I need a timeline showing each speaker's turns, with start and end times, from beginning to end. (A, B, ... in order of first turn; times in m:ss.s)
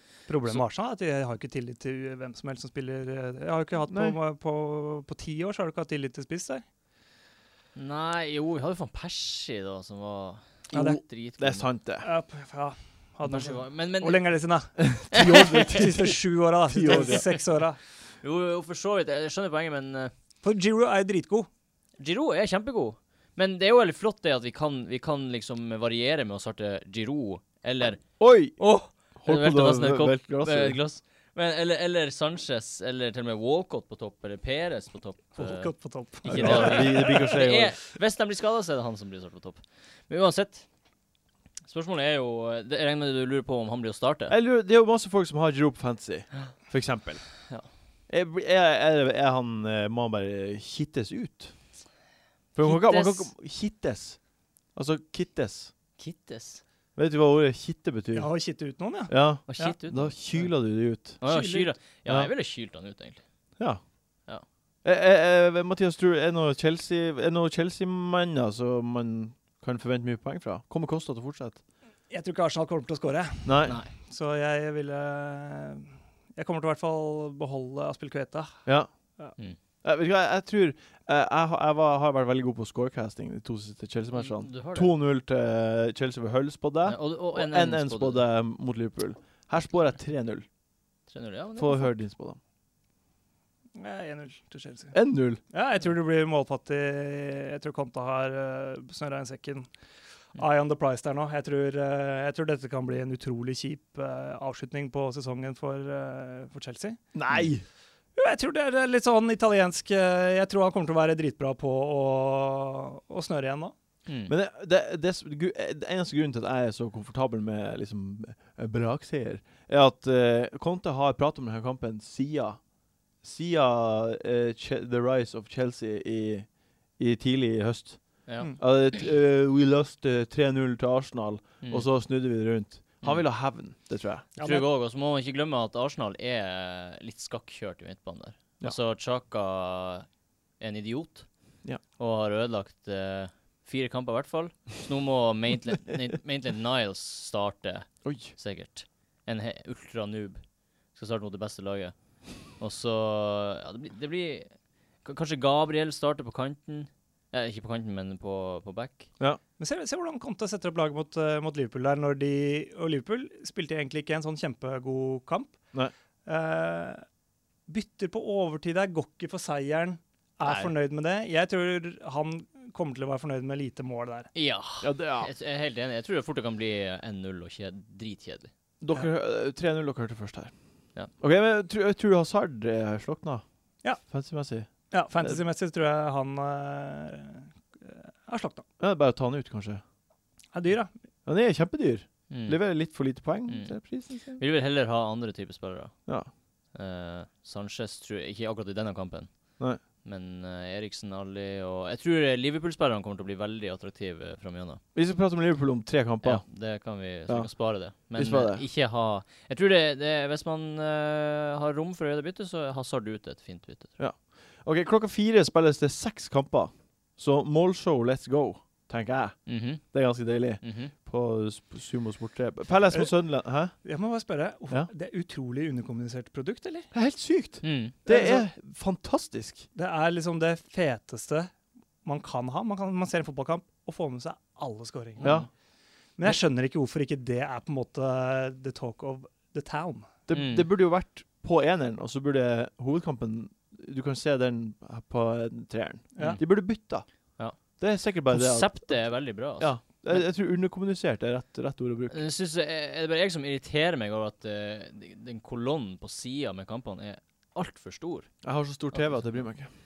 0:00.3-0:06.6 A
0:03.9-0:04.2 B
0:07.7-0:11.7 C
0:10.7-0:12.0 B
0:10.7-0:11.0 A
0:12.0-0:14.7 A
0:13.2-0:14.3 C
0:14.8-0:17.2 B
0:15.1-0:15.6 C
0:15.3-0:17.8 A
0:18.2-0:20.1 C
0:20.4-0:21.5 A
0:22.0-0:40.6 C
0:28.2-0:28.6 B
0:29.2-0:30.8 B
0:35.4-0:37.3 A
0:36.2-0:37.8 B
0:41.7-0:44.3 C
0:44.3-0:47.5 B
0:48.1-0:51.5 B
0:52.5-0:54.2 B
0:52.6-0:53.3 C
0:54.7-0:55.7 B
0:56.0-0:56.6 C
0:57.0-0:58.3 B
0:58.1-0:59.8 A
0:59.1-1:01.2 B
0:59.5-1:00.1 C
1:01.2-1:01.7 A
1:01.2-1:03.2 C
1:02.0-1:02.3 B
1:04.8-1:11.6 B
1:12.1-1:18.6 A
1:13.4-1:13.8 B
1:13.6-1:13.9 C
1:19.8-1:30.4 B
1:24.1-1:24.9 C
1:26.8-1:28.2 C
1:31.1-1:31.9 C
1:31.6-1:32.4 B
1:33.8-1:35.0 A
1:34.9-1:35.4 B
1:35.5-1:39.7 A
1:40.3-1:47.0 A
1:47.1-1:47.6 B
1:48.2-1:53.7 A
1:54.0-1:54.3 C
1:54.3-2:02.6 B
2:03.2-2:14.3 B
2:08.2-2:08.5 C
2:14.4-2:20.1 C
2:14.4-2:14.7 A
2:20.6-2:21.3 C
2:22.0-2:39.1 C
2:28.0-2:28.3 B
2:39.6-2:45.6 A
2:46.2-2:47.0 A
2:47.7-2:54.3 A
2:54.3-2:58.5 C
2:54.8-2:55.3 B
2:58.8-3:00.5 B
3:01.2-3:03.4 B
3:04.0-3:04.7 B
3:04.9-3:08.6 A
3:08.8-3:09.8 B
3:10.5-3:10.9 A
3:11.2-3:14.4 B
3:12.3-3:12.6 C
3:13.5-3:16.0 C
3:16.7-3:24.8 C
3:24.9-3:26.4 B
3:26.2-3:33.9 C
3:27.3-3:28.6 B
3:34.0-3:43.8 B
3:39.4-3:40.0 C
3:40.6-3:40.9 C
3:42.9-3:43.2 A
3:43.7-3:46.9 A
3:46.9-3:49.6 B
3:47.6-3:47.9 C
3:48.0-3:48.5 A
3:49.7-3:51.5 A
3:52.0-3:55.4 A
3:55.2-3:55.4 C
3:55.2-3:55.5 B
3:56.2-4:00.1 A
4:00.3-4:12.2 B
4:00.3-4:00.7 C
4:06.1-4:06.4 A
4:06.2-4:06.6 C
4:07.4-4:10.2 C
4:12.1-4:18.3 C
4:18.4-4:19.7 B